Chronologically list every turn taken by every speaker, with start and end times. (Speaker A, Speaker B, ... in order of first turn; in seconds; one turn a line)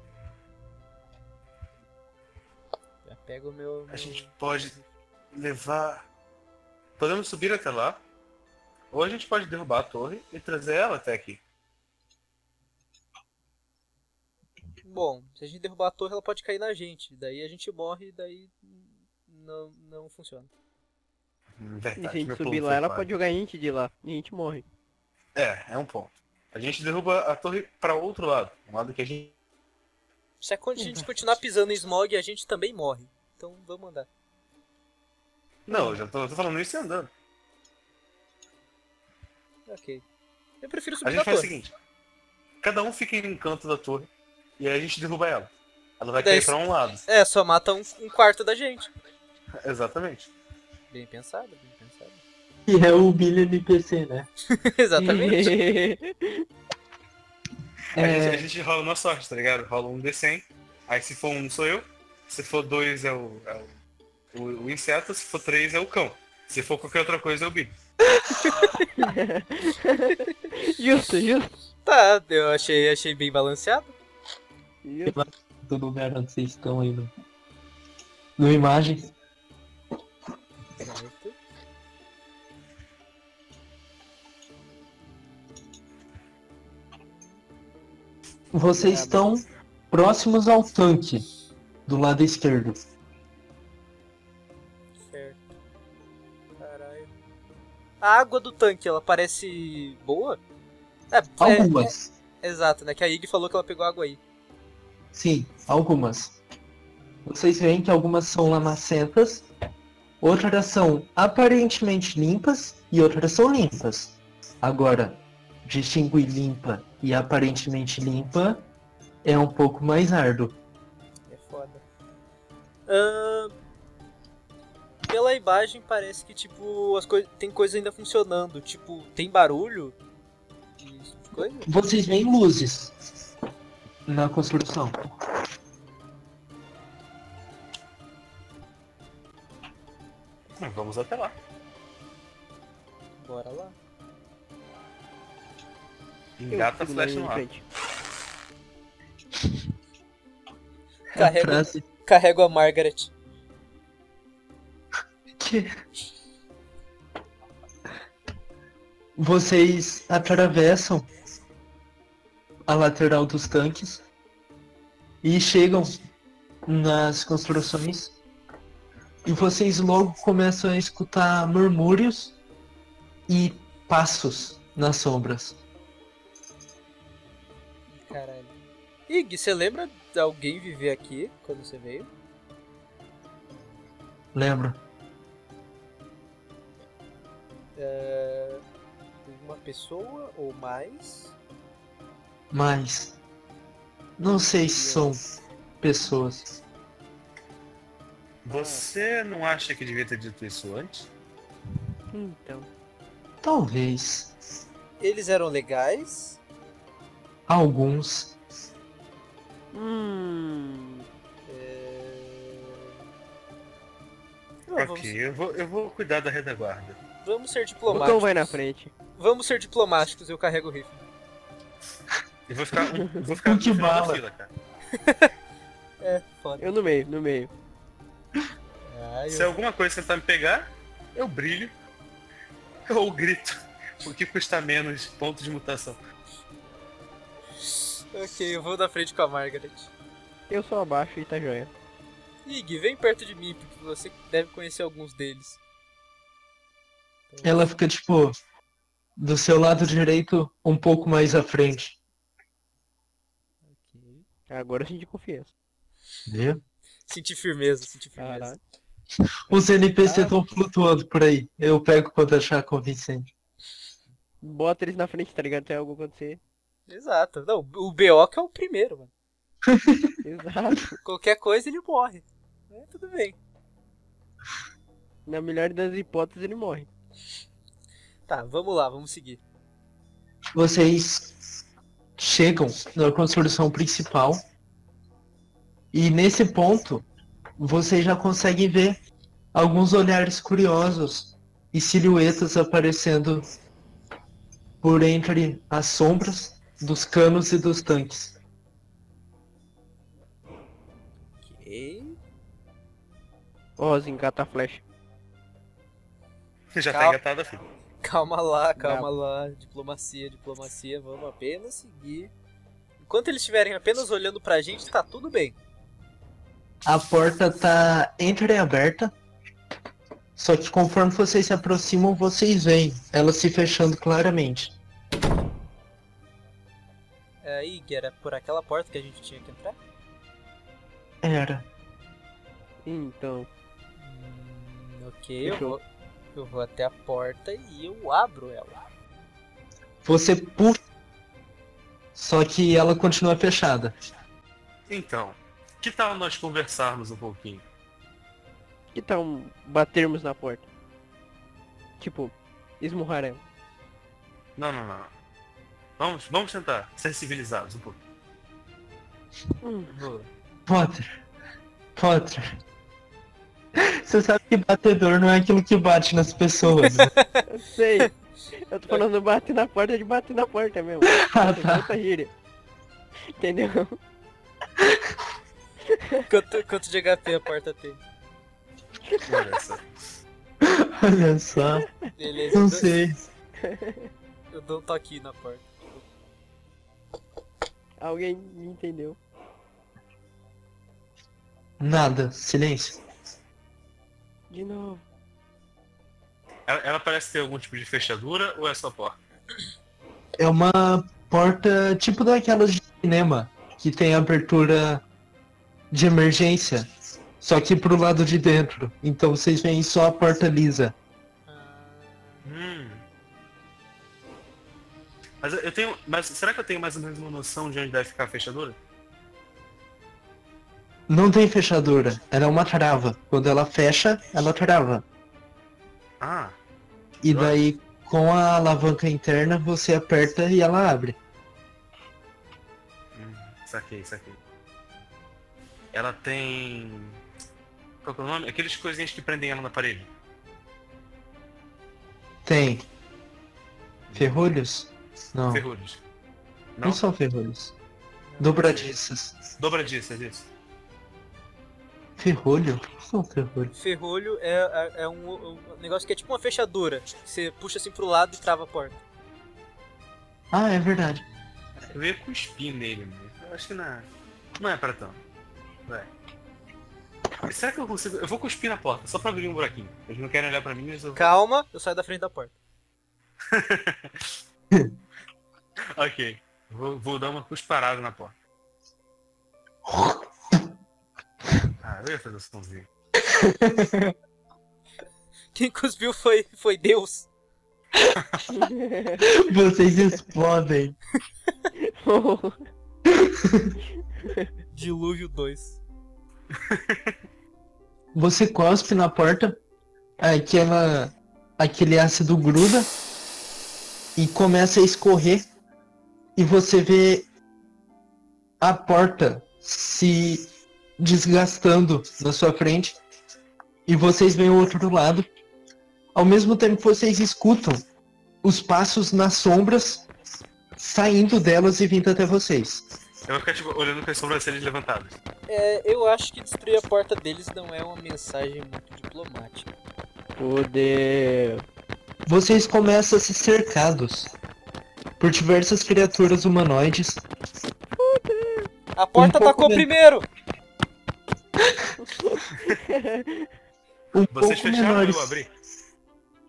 Speaker A: 3.0-4.9
Speaker B: 3.9-4.8
Speaker B: 5.3-6.0
Speaker B: 7.0-8.0
Speaker B: 8.9-11.4
Speaker A: 14.8-20.5
Speaker B: 21.6-23.1
Speaker C: 22.0-24.6
Speaker B: 25.4-29.4
Speaker A: 30.4-34.1
Speaker B: 35.7-37.1
Speaker A: 39.7-40.0
Speaker A: 40.6-41.5
Speaker B: 41.0-41.7
Speaker B: 42.6-47.0
Speaker A: 46.2-48.9
Speaker B: 49.6-50.3
Speaker A: 50.9-52.2
Speaker D: 52.7-54.3
Speaker A: 54.5-55.6
Speaker C: 55.0-56.5
Speaker D: 58.0-58.5
Speaker B: 58.0-63.7
Speaker B: 64.3-67.7
Speaker A: 68.4-68.8
Speaker C: 69.0-71.5
Speaker A: 71.8-74.0
Speaker C: 74.8-75.2
Speaker D: 75.1-77.1
Speaker D: 78.4-79.1
Speaker A: 80.8-81.4
Speaker D: 88.5-91.2
Speaker A: 88.8-89.2
Speaker D: 91.9-92.8
Speaker A: 95.0-95.4
Speaker A: 96.6-97.1
Speaker A: 98.0-100.4
Speaker A: 101.1-104.2
Speaker D: 101.4-102.1
Speaker D: 105.1-106.4
Speaker A: 107.0-107.4
Speaker D: 107.3-109.5
Speaker D: 110.2-118.7
Speaker D: 119.2-120.6
Speaker A: 121.3-121.8
Speaker A: 122.9-123.5
Speaker A: 125.1-130.0
Speaker A: 130.8-131.7
Speaker D: 131.7-132.9
Speaker D: 134.1-134.9
Speaker B: 140.6-141.3
Speaker A: 143.2-143.8
Speaker B: 146.4-147.4
Speaker C: 146.5-147.6
Speaker D: 151.1-151.8
Speaker A: 151.1-153.1
Speaker D: 155.4-155.7
Speaker D: 159.2-161.1
Speaker D: 162.7-164.0
Speaker D: 165.2-165.9
Speaker D: 166.7-168.2
Speaker D: 169.2-172.4
Speaker D: 173.3-175.6
Speaker A: 177.9-178.5
Speaker A: 179.1-182.1
Speaker D: 184.3-184.8
Speaker A: 187.8-188.6
Speaker A: 189.2-191.3
Speaker D: 192.5-193.2
Speaker D: 194.2-195.2
Speaker C: 194.8-195.1
Speaker D: 195.8-196.5
Speaker B: 198.4-201.1
Speaker C: 198.5-198.8
Speaker C: 202.1-202.7
Speaker D: 203.4-204.3
Speaker A: 205.0-206.4
Speaker D: 207.5-208.3
Speaker C: 209.7-211.1
Speaker A: 211.4-212.9
Speaker A: 214.7-215.2
Speaker B: 214.8-217.0
Speaker A: 217.2-218.6
Speaker C: 217.9-218.9
Speaker A: 219.2-221.1
Speaker B: 222.5-224.5
Speaker D: 223.4-224.2
Speaker A: 225.0-225.3
Speaker A: 226.0-226.8
Speaker C: 226.6-227.5
Speaker A: 228.8-229.5
Speaker B: 229.3-231.7
Speaker B: 232.9-236.0
Speaker A: 237.7-239.9
Speaker C: 240.5-241.7
Speaker A: 242.4-245.6
Speaker A: 247.3-247.7
Speaker D: 247.4-248.3
Speaker D: 249.2-252.0
Speaker A: 253.7-254.3
Speaker C: 254.5-255.5
Speaker D: 256.3-256.6
Speaker A: 257.1-258.5
Speaker C: 258.2-258.6
Speaker D: 259.5-263.3
Speaker A: 260.0-260.3
Speaker C: 264.4-266.4
Speaker A: 266.9-269.1
Speaker D: 269.7-270.2
Speaker C: 270.2-271.0
Speaker A: 271.0-273.4
Speaker C: 275.3-276.9
Speaker A: 278.3-279.4
Speaker D: 280.6-281.3
Speaker D: 282.2-284.4
Speaker D: 285.9-287.1
Speaker D: 287.6-289.0
Speaker D: 289.5-293.4
Speaker D: 294.8-298.4
Speaker A: 301.4-302.2
Speaker C: 303.8-304.8
Speaker B: 306.7-307.7
Speaker A: 306.9-307.2
Speaker A: 308.0-312.3
Speaker C: 308.8-309.1
Speaker A: 313.0-315.6
Speaker D: 316.9-319.1
Speaker D: 320.4-324.7
Speaker A: 327.4-329.8
Speaker D: 331.2-331.7
Speaker C: 332.9-333.5
Speaker A: 334.0-335.8
Speaker C: 335.4-335.8
Speaker A: 336.4-338.8
Speaker D: 340.1-340.8
Speaker D: 342.1-343.9
Speaker B: 344.9-347.6
Speaker C: 348.9-350.7
Speaker C: 352.0-353.4
Speaker B: 354.6-355.1
Speaker B: 356.0-358.0
Speaker C: 359.6-359.9
Speaker B: 359.9-360.3
Speaker D: 360.7-361.1
Speaker D: 362.0-362.6
Speaker D: 363.8-367.1
Speaker A: 366.9-367.4
Speaker C: 367.5-372.3
Speaker D: 371.1-371.9
Speaker C: 373.4-374.0
Speaker C: 375.9-376.2
Speaker A: 376.3-378.0
Speaker B: 379.2-379.9
Speaker D: 380.6-381.9
Speaker A: 382.2-382.9
Speaker D: 382.5-383.2
Speaker C: 383.6-384.1
Speaker A: 384.5-386.0
Speaker C: 388.0-389.2
Speaker D: 391.8-393.0
Speaker C: 394.5-395.0
Speaker B: 396.7-399.2
Speaker D: 400.4-405.0
Speaker D: 405.9-406.9
Speaker D: 407.4-410.9
Speaker A: 411.5-412.5
Speaker B: 412.4-413.0
Speaker B: 415.4-418.8
Speaker D: 421.1-425.1
Speaker B: 426.2-426.6
Speaker D: 427.2-431.2
Speaker B: 427.3-427.6
Speaker B: 433.1-434.4
Speaker B: 435.9-437.2
Speaker B: 438.0-440.1
Speaker D: 442.4-442.9
Speaker B: 444.1-444.4
Speaker D: 444.1-445.6
Speaker B: 445.5-446.0
Speaker D: 446.8-447.7
Speaker A: 448.3-448.6
Speaker D: 448.4-449.4
Speaker B: 448.6-448.9
Speaker B: 449.6-450.5
Speaker D: 452.2-453.7
Speaker A: 453.7-459.0
Speaker D: 460.5-461.2
Speaker B: 461.9-465.2
Speaker B: 467.4-471.3
Speaker A: 471.2-472.6
Speaker B: 473.5-474.3
Speaker B: 475.9-478.4
Speaker D: 479.9-480.7
Speaker B: 481.8-482.9
Speaker D: 483.2-484.1
Speaker A: 485.5-487.3
Speaker B: 488.2-488.4
Speaker C: 488.5-489.2
Speaker D: 489.3-491.0
Speaker C: 491.8-492.6
Speaker D: 493.1-493.8
Speaker A: 494.7-495.8
Speaker B: 496.6-497.1
Speaker D: 498.1-499.6
Speaker D: 500.2-502.9
Speaker D: 504.2-505.4
Speaker D: 506.4-507.3
Speaker D: 508.6-510.5
Speaker D: 511.0-513.0
Speaker D: 513.9-515.3
Speaker D: 516.1-517.8
Speaker D: 518.4-520.1
Speaker D: 520.8-522.9
Speaker B: 523.3-525.2
Speaker A: 525.5-529.7
Speaker C: 530.4-531.6
Speaker D: 532.3-534.3
Speaker D: 535.2-537.2
Speaker C: 538.0-538.7
Speaker A: 539.0-540.3
Speaker D: 539.2-539.9
Speaker D: 541.6-541.9
Speaker C: 542.0-543.5
Speaker D: 544.1-545.4
Speaker B: 544.3-545.5